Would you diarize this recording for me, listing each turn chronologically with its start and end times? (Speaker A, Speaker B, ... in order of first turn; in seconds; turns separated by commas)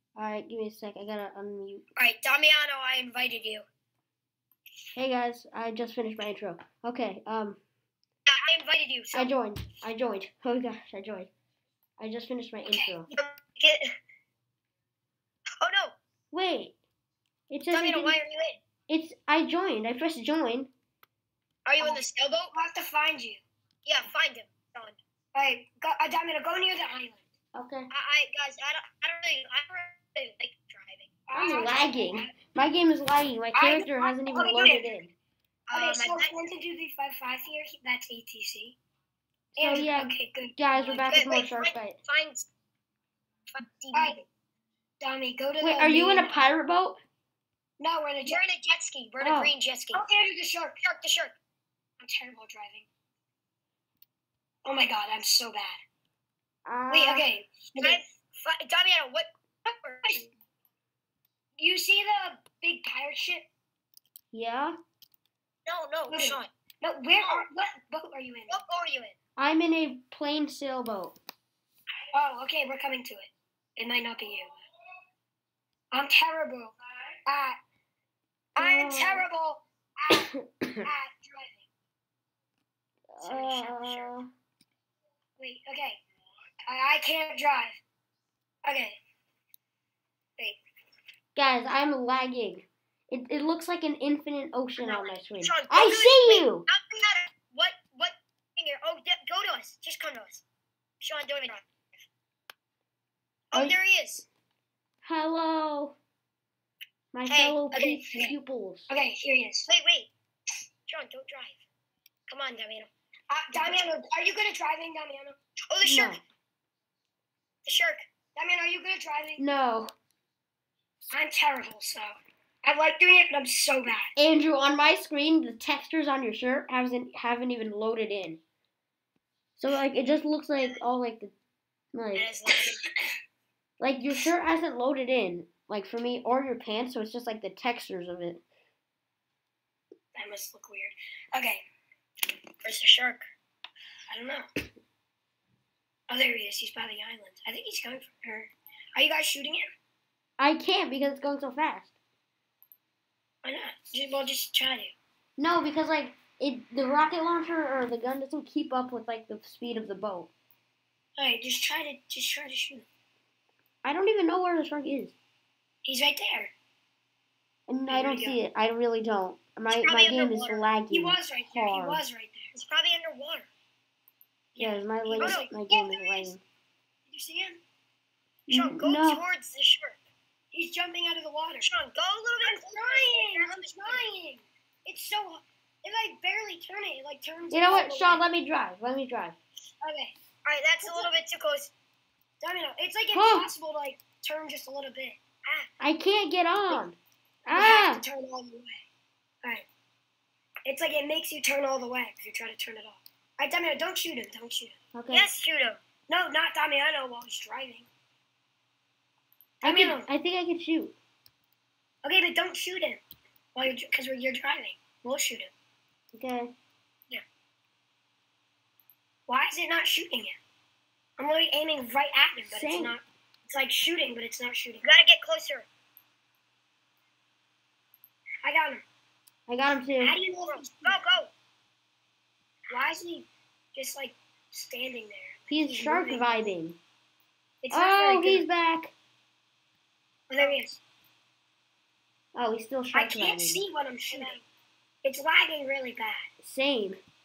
Speaker A: 0.2-1.8, Speaker B: 2.0-3.6, Speaker A: 5.0-7.6, Speaker B: 8.3-9.3, Speaker A: 9.1-11.3, Speaker A: 12.0-13.1, Speaker C: 12.7-12.9, Speaker B: 13.1-13.9, Speaker B: 15.6-16.0, Speaker A: 16.3-16.7, Speaker A: 17.5-18.2, Speaker B: 17.7-18.6, Speaker A: 18.9-20.7, Speaker B: 21.7-22.6, Speaker C: 21.8-23.4, Speaker B: 23.9-25.0, Speaker C: 25.3-27.2, Speaker A: 27.6-27.9, Speaker B: 27.9-31.7, Speaker C: 31.3-32.3, Speaker A: 31.3-35.1, Speaker C: 33.5-35.0, Speaker B: 34.4-34.8, Speaker B: 35.7-36.4, Speaker C: 35.7-38.8, Speaker C: 39.6-41.5, Speaker A: 39.6-42.0, Speaker B: 41.1-42.5, Speaker B: 43.5-44.2, Speaker C: 43.9-44.2, Speaker C: 45.0-46.6, Speaker A: 45.6-47.0, Speaker C: 47.8-48.4, Speaker B: 48.3-50.0, Speaker A: 49.2-49.5, Speaker C: 49.9-50.8, Speaker B: 50.8-51.4, Speaker C: 52.0-52.9, Speaker C: 54.6-55.8, Speaker A: 56.7-57.3, Speaker C: 56.9-58.0, Speaker B: 57.8-60.3, Speaker C: 61.6-63.5, Speaker A: 64.3-64.8, Speaker B: 65.7-66.5, Speaker C: 66.1-68.6, Speaker B: 68.5-69.2, Speaker A: 69.4-71.2, Speaker C: 72.1-74.6, Speaker C: 75.9-76.7, Speaker C: 77.3-77.6, Speaker B: 78.6-79.1, Speaker A: 78.6-79.2, Speaker C: 78.6-80.3, Speaker A: 80.1-80.9, Speaker C: 80.8-81.7, Speaker A: 83.1-84.3, Speaker B: 83.2-84.2, Speaker C: 85.4-86.0, Speaker C: 86.7-87.8, Speaker C: 88.7-89.0, Speaker A: 91.3-96.7, Speaker B: 94.8-100.4, Speaker B: 101.0-101.7, Speaker B: 103.5-104.3, Speaker A: 105.0-106.0, Speaker A: 107.1-108.9, Speaker B: 107.3-108.0, Speaker C: 107.7-108.3, Speaker C: 108.9-109.7, Speaker B: 109.7-110.1, Speaker B: 110.9-111.6, Speaker B: 112.3-112.9, Speaker C: 113.3-115.4, Speaker B: 115.7-116.2, Speaker A: 115.8-116.2, Speaker B: 117.7-118.1, Speaker C: 118.3-119.4, Speaker A: 119.4-119.9, Speaker C: 121.1-124.1, Speaker A: 124.2-128.4, Speaker A: 129.6-131.3, Speaker A: 131.9-132.3, Speaker B: 132.2-132.9, Speaker A: 133.8-138.4, Speaker C: 140.2-141.6, Speaker B: 142.6-143.3, Speaker C: 144.1-144.5, Speaker C: 146.1-149.7, Speaker A: 150.4-151.9, Speaker C: 153.4-154.9, Speaker A: 155.4-160.3, Speaker C: 161.2-162.9, Speaker A: 163.8-165.2, Speaker C: 165.8-166.5, Speaker A: 167.7-172.0, Speaker C: 167.9-168.4, Speaker B: 169.7-170.7, Speaker C: 170.9-172.5, Speaker B: 172.5-173.5, Speaker C: 174.5-176.3, Speaker A: 174.6-176.4, Speaker B: 175.2-175.5, Speaker C: 177.1-177.6, Speaker A: 178.5-179.2, Speaker B: 178.5-180.0, Speaker C: 180.5-181.7, Speaker B: 181.6-184.1, Speaker C: 182.4-188.2, Speaker A: 187.5-189.4, Speaker C: 189.8-190.1, Speaker B: 190.4-191.7, Speaker C: 190.8-191.2, Speaker C: 192.4-195.2, Speaker A: 193.1-193.5, Speaker A: 195.8-198.0, Speaker C: 197.6-198.8, Speaker C: 200.7-204.8, Speaker A: 204.9-205.3, Speaker B: 205.1-205.8, Speaker C: 206.1-207.9, Speaker A: 209.6-210.9, Speaker C: 209.6-210.1, Speaker C: 212.0-213.0, Speaker C: 213.6-215.5, Speaker A: 216.1-216.5, Speaker C: 219.3-220.4, Speaker C: 221.2-224.9, Speaker A: 222.5-223.0, Speaker B: 224.8-225.7, Speaker C: 228.4-228.8, Speaker A: 229.5-230.2, Speaker C: 230.0-231.0, Speaker B: 230.4-231.3, Speaker C: 232.7-236.5, Speaker A: 235.5-236.8, Speaker C: 237.6-238.5, Speaker A: 237.7-238.9, Speaker C: 240.3-240.8, Speaker A: 242.3-243.6, Speaker C: 242.9-244.4, Speaker B: 244.1-244.4, Speaker C: 245.0-246.3, Speaker A: 246.4-247.0